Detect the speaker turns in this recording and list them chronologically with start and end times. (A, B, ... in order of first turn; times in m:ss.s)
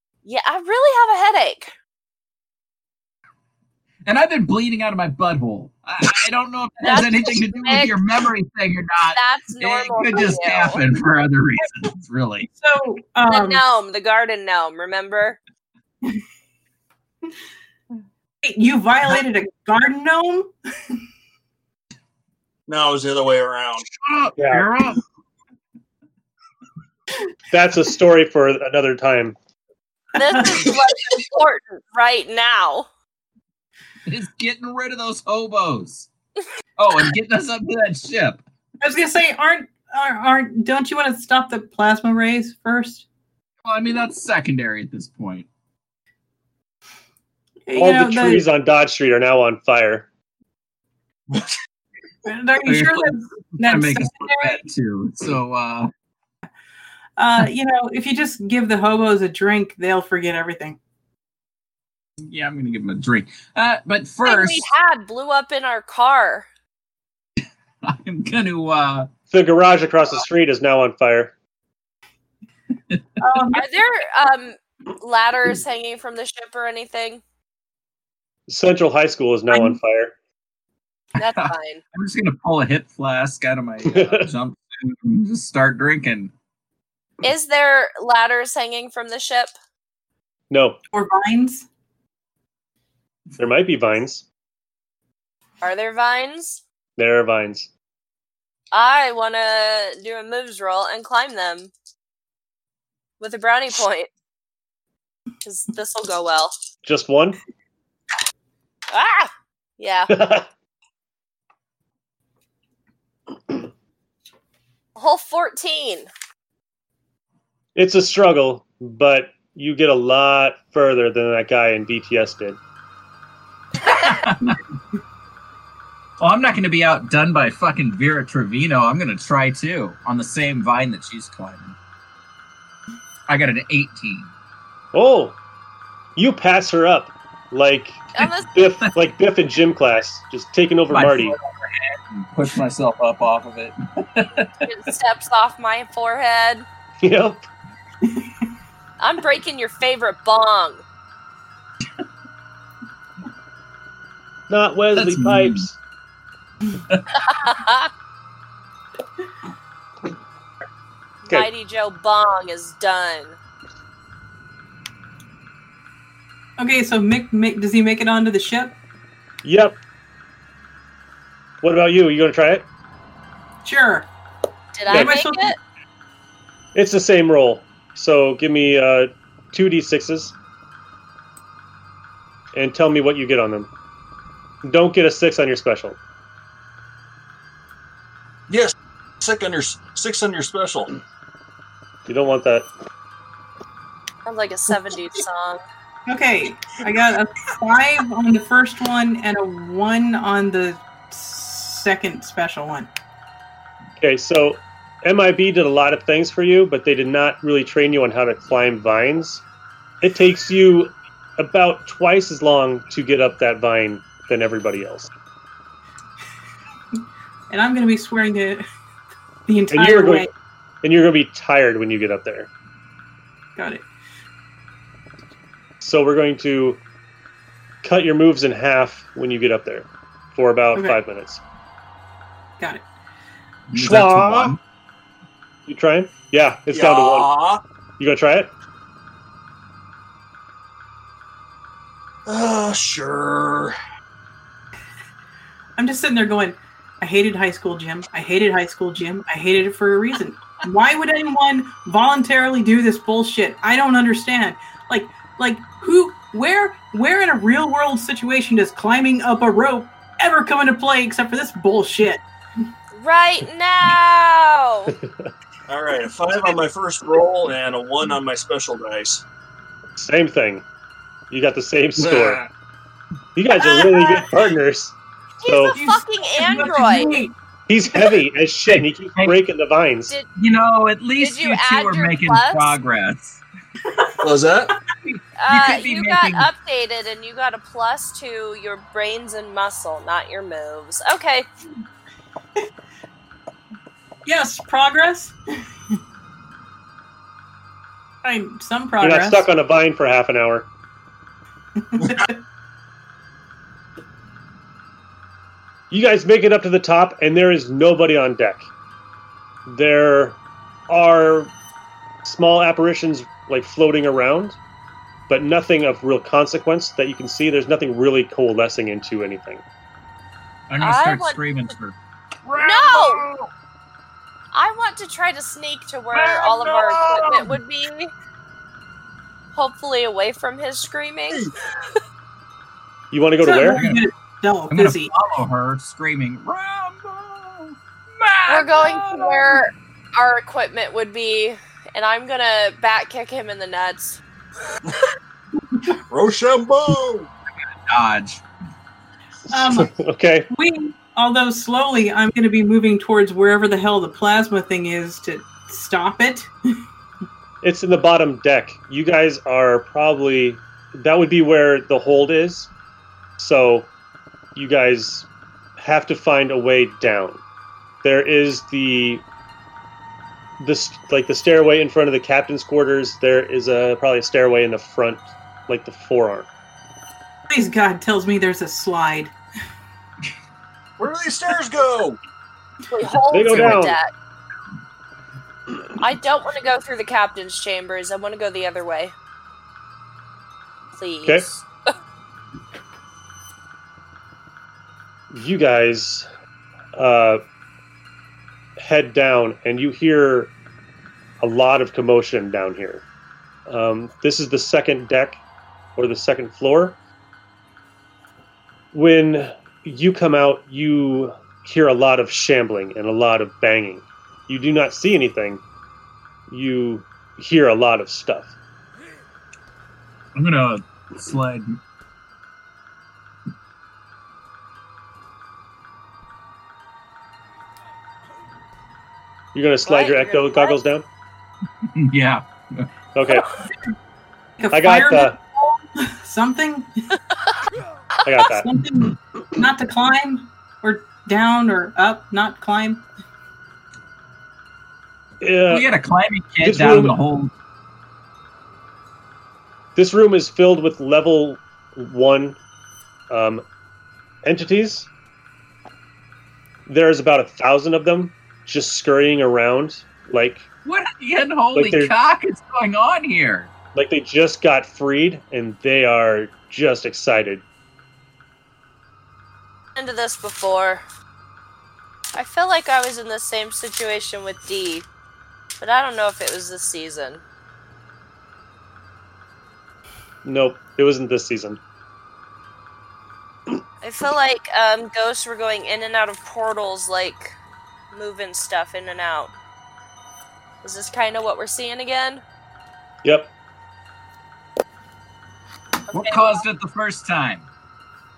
0:00.2-0:01.7 A
0:04.0-0:12.5 B
0:06.8-0:08.0 A
0:09.1-0:10.8 A
0:12.6-0:13.6 C
0:13.3-0:15.4 A
0:18.4-0:20.5 C
0:22.7-0:23.9 D
0:24.0-0:25.0 B
0:24.4-0:24.7 E
0:27.5-0:29.4 E
0:30.1-0:32.9 A
0:30.3-0:30.6 C
0:34.1-0:36.1 B
0:36.8-0:38.4 B
0:38.8-0:43.1 C
0:43.6-0:45.5 B
0:47.7-0:48.4 C
0:47.8-0:50.1 E
0:52.2-0:54.6 C
0:52.6-0:55.9 B
0:57.2-1:00.8 C
1:02.3-1:04.6 B
1:04.2-1:06.5 A
1:07.8-1:09.1 B
1:09.3-1:11.3 E
1:13.2-1:13.6 C
1:13.5-1:17.2 A
1:18.5-1:20.2 E
1:21.2-1:21.8 A
1:21.2-1:26.3 B
1:23.9-1:24.3 E
1:27.2-1:29.5 A
1:30.5-1:30.8 E
1:30.9-1:31.7 C
1:33.4-1:34.2 E
1:35.6-1:36.6 A
1:37.0-1:37.7 E
1:38.7-1:41.7 A
1:43.2-1:44.1 A
1:45.4-1:46.5 A
1:46.8-1:47.4 E
1:48.9-1:50.1 A
1:50.1-1:50.5 E
1:55.0-1:56.1 A
1:57.8-2:02.6 E
2:03.8-2:04.6 B
2:06.2-2:11.8 B
2:13.3-2:14.3 B
2:14.9-2:15.4 E
2:16.2-2:21.4 E
2:18.2-2:18.5 A
2:20.9-2:24.5 B
2:24.6-2:26.7 A
2:27.0-2:27.5 E
2:29.0-2:30.8 A
2:34.5-2:35.8 E
2:35.0-2:35.6 B
2:37.1-2:37.9 A
2:41.3-2:43.4 A
2:46.6-2:48.7 C
2:49.4-2:49.8 E
2:51.6-2:52.7 E
2:53.6-2:54.1 C
2:54.8-2:55.6 A
2:54.9-2:55.5 C
2:54.9-2:55.2 E
2:56.8-3:00.4 E
3:02.5-3:03.7 E
3:04.6-3:06.0 E
3:08.5-3:10.9 D
3:12.1-3:12.7 E
3:14.2-3:15.6 A
3:16.1-3:22.9 C
3:24.0-3:29.4 E
3:30.0-3:35.1 E
3:37.5-3:38.6 C
3:39.5-3:40.3 C
3:39.7-3:40.3 E
3:40.8-3:42.5 E
3:43.6-3:43.9 C
3:45.8-3:46.8 E
3:47.8-3:51.4 E
3:52.6-3:52.8 C
3:53.7-3:54.6 B
3:53.8-3:54.6 E
3:55.7-3:57.3 E
3:56.7-3:57.6 D
3:58.0-3:58.5 E
4:02.3-4:03.8 D
4:05.8-4:22.2 C
4:22.9-4:24.9 A
4:25.7-4:29.2 D
4:30.0-4:30.6 E
4:31.3-4:32.4 E
4:32.0-4:32.5 D
4:33.4-4:35.8 E
4:33.6-4:34.2 A
4:35.4-4:37.3 A
4:35.7-4:37.3 C
4:37.7-4:40.2 E
4:38.7-4:39.4 B
4:40.4-4:43.4 B
4:41.2-4:42.8 A
4:44.2-4:44.7 D
4:45.0-4:46.5 B
4:45.4-4:51.5 A
4:54.2-4:55.4 C
4:58.2-4:59.5 C
4:59.0-5:00.7 E
5:01.8-5:02.4 C
5:05.9-5:08.7 E
5:09.7-5:11.5 E
5:12.2-5:14.6 E
5:15.3-5:19.6 E
5:20.7-5:23.5 B
5:20.8-5:21.4 A
5:22.6-5:23.3 A
5:24.5-5:28.1 A
5:26.1-5:27.6 B
5:29.5-5:31.5 A
5:33.1-5:33.8 E
5:33.4-5:35.1 C
5:33.7-5:34.1 B
5:34.7-5:39.6 B
5:38.5-5:44.2 A
5:46.1-5:47.3 D
5:47.9-5:48.4 B
5:49.5-5:50.0 C
5:49.5-5:50.5 E
5:50.5-5:56.5 C
5:57.6-6:02.7 E
6:03.4-6:03.9 E
6:04.6-6:05.3 E
6:05.8-6:07.4 E
6:08.0-6:09.2 E
6:10.6-6:16.5 E
6:17.5-6:19.4 C
6:21.0-6:22.2 D
6:22.9-6:24.1 A
6:23.3-6:24.0 E
6:23.5-6:23.8 B
6:26.0-6:29.2 A
6:30.9-6:31.6 A
6:35.3-6:36.3 E
6:37.0-6:37.4 E
6:38.8-6:40.5 E
6:41.4-6:43.0 E
6:43.7-6:45.4 E
6:46.0-6:47.0 E
6:48.9-6:55.6 E
6:56.5-6:58.5 E
7:00.4-7:01.8 B
7:09.5-7:11.0 E
7:09.8-7:10.8 A
7:11.9-7:12.9 B
7:13.2-7:13.5 E
7:14.6-7:16.9 C
7:14.7-7:15.4 E
7:18.2-7:18.7 E
7:18.4-7:23.0 C
7:25.4-7:25.9 E
7:25.7-7:27.5 B
7:26.6-7:27.2 E
7:30.0-7:32.6 E
7:33.3-7:33.6 E
7:34.4-7:35.1 E
7:36.9-7:40.7 E
7:40.8-7:43.7 B
7:41.7-7:42.1 E
7:44.0-7:47.6 E
7:50.0-7:51.0 A
7:52.4-7:55.1 A
7:55.8-7:57.4 A
8:00.4-8:01.8 E
8:04.0-8:07.6 A
8:08.1-8:09.5 A
8:10.8-8:12.4 A
8:13.2-8:13.5 E
8:16.1-8:16.6 A
8:16.1-8:17.7 B